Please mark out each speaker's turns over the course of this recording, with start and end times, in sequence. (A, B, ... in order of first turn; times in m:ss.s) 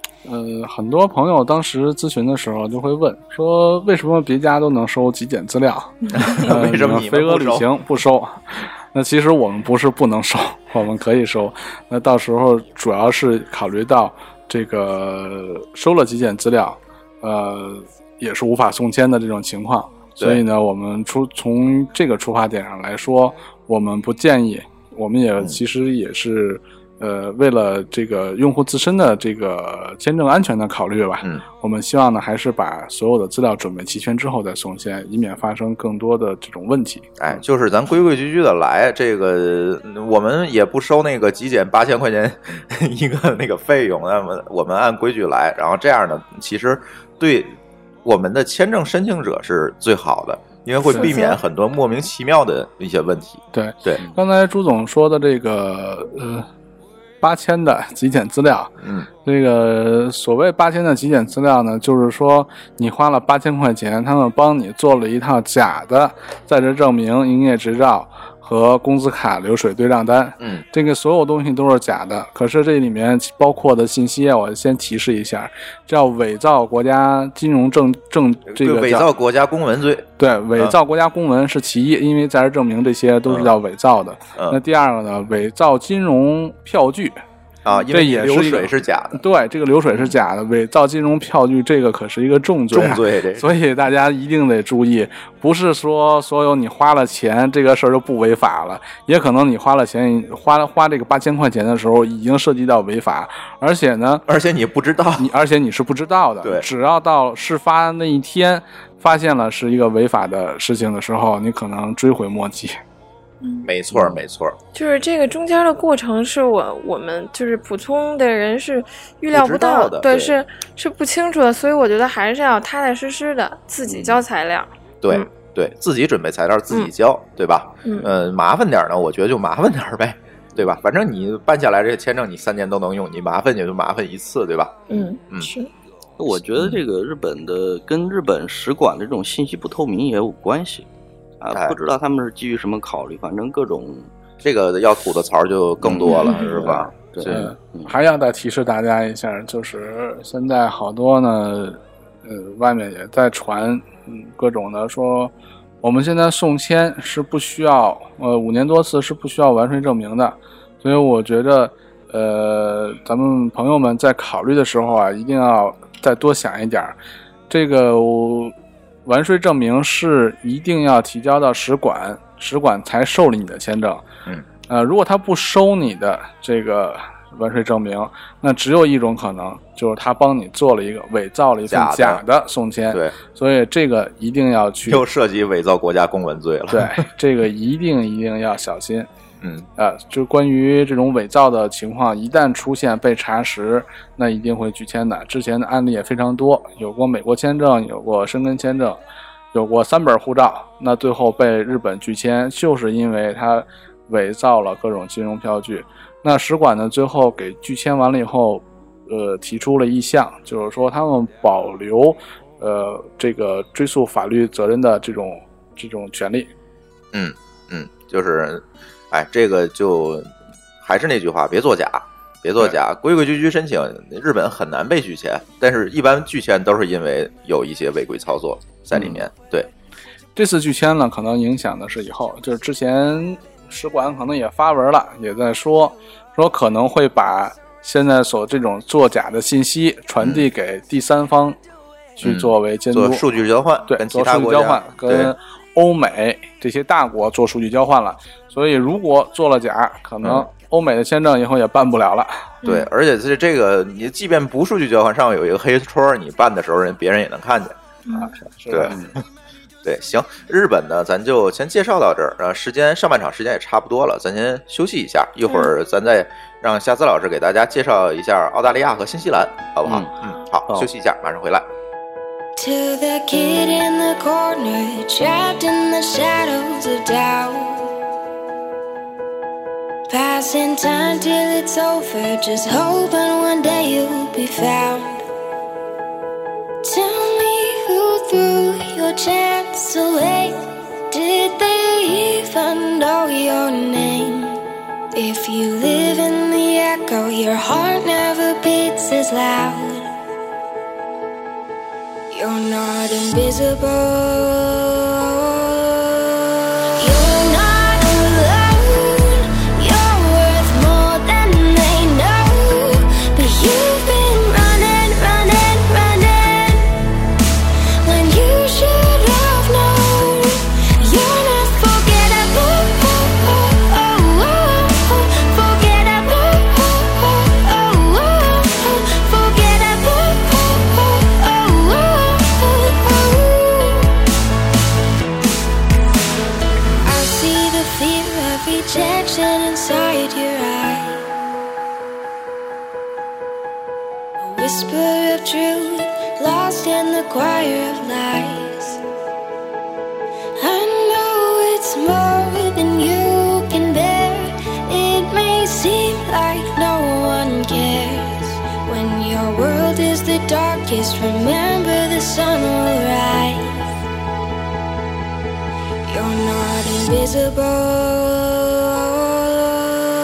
0:00.2-0:37.1 A
0:06.1-0:07.7 B
0:37.2-0:54.0 B
0:50.9-0:51.4 C
0:53.5-0:56.5 A
0:57.2-0:58.7 A
0:58.8-0:59.1 B
0:59.2-1:19.1 A
1:10.4-1:10.6 B
1:18.5-1:20.7 B
1:20.2-1:27.2 A
1:23.3-1:23.5 B
1:24.4-1:24.6 B
1:27.6-1:29.2 B
1:27.9-1:44.2 A
1:29.9-1:30.2 B
1:32.7-1:33.5 B
1:44.3-1:45.3 B
1:45.2-1:52.8 A
1:46.4-1:46.7 B
1:53.4-1:53.7 C
1:53.6-1:54.6 B
1:54.7-2:05.3 C
1:59.3-2:00.4 B
2:05.0-2:15.5 B
2:07.8-2:08.1 C
2:14.9-2:15.7 C
2:16.2-2:20.9 D
2:16.3-2:16.8 B
2:21.4-2:24.1 D
2:21.5-2:21.8 B
2:24.4-2:27.5 B
2:25.8-2:27.9 D
2:26.1-2:26.5 C
2:27.2-2:47.0 A
2:47.5-2:48.5 A
2:49.0-2:54.0 A
2:54.7-3:05.0 A
3:01.7-3:02.2 B
3:04.9-3:07.1 B
3:06.7-3:09.1 A
3:09.4-3:09.7 B
3:09.8-3:19.0 A
3:19.5-3:36.5 A
3:37.1-3:49.7 B
3:50.4-4:01.6 A
4:00.2-4:00.4 B
4:02.2-4:03.2 A
4:02.2-4:05.3 B
4:03.9-4:12.5 A
4:10.2-4:10.5 B
4:12.6-4:12.9 C
4:12.6-4:17.8 B
4:18.1-4:18.3 C
4:18.2-4:19.0 A
4:18.7-4:19.0 B
4:19.8-4:31.7 B
4:29.8-4:30.1 D
4:32.6-4:37.9 E
4:40.1-4:45.2 E
4:46.8-4:54.6 E
4:55.1-5:00.1 E
5:02.3-5:06.2 E
5:07.0-5:16.9 E
5:18.0-5:34.1 E
5:37.0-5:41.3 E
5:44.4-5:49.0 E
5:50.6-6:03.9 E
6:06.0-6:10.0 E